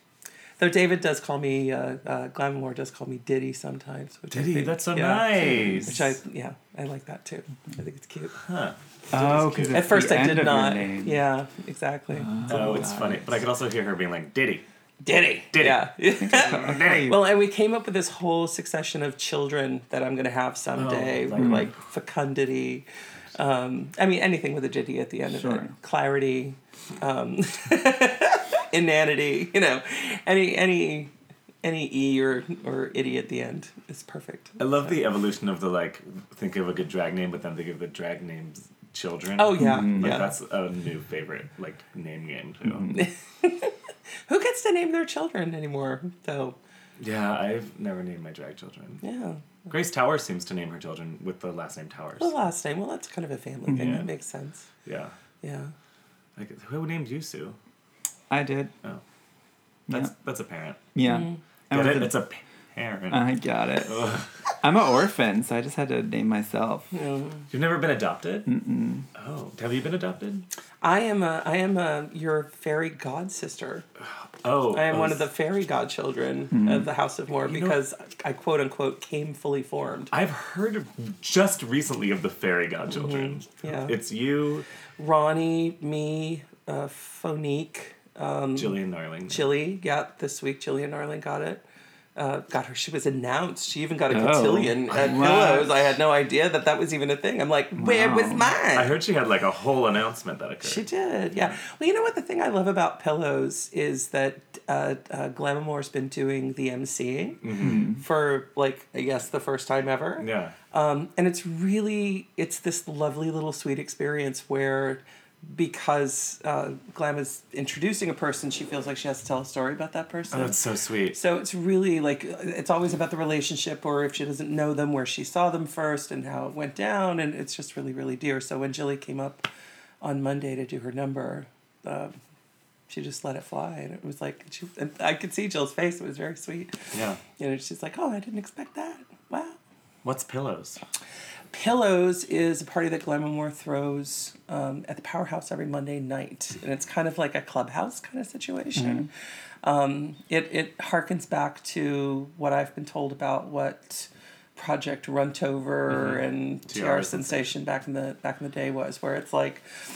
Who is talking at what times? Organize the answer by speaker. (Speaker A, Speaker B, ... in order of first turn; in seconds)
Speaker A: 0.6-8.4, 9.7-12.6, 15.0-31.1, 31.6-34.7, 39.4-40.3, 42.9-43.7, 44.3-46.6, 49.0-49.5, 52.2-54.7, 55.4-55.7, 61.0-61.4, 66.9-67.4, 70.8-73.8, 74.7-80.1, 82.9-83.9, 85.0-88.8, 89.3-91.6, 92.2-99.0, 100.6-120.5, 121.1-129.4, 130.0-132.1, 132.9-139.6, 141.5-149.1, 149.6-159.6
Speaker B: 4.3-6.1, 8.3-10.1, 12.4-14.7, 15.5-17.2, 20.7-21.8, 34.6-43.0, 47.0-49.0, 49.7-52.3, 53.7-54.1, 54.8-55.1, 56.4-57.6, 59.9-60.9, 61.7-63.2, 63.9-64.2, 67.5-68.5, 69.1-70.5, 74.4-75.2, 77.4-77.8, 80.1-84.7, 88.5-89.5, 98.7-100.8, 107.4-107.9, 110.2-110.5, 120.3-121.2, 136.9-137.2, 140.0-140.8, 155.9-157.5
Speaker C: 9.1-11.2, 12.2-13.2, 16.2-17.2, 21.4-21.7, 25.3-25.7, 39.6-40.1, 42.8-43.0, 53.7-54.0, 58.3-58.7, 59.9-60.1, 60.9-62.2, 63.1-66.9, 68.5-69.0, 76.5-76.9, 94.1-95.9, 97.8-98.5, 107.6-108.0, 148.8-149.1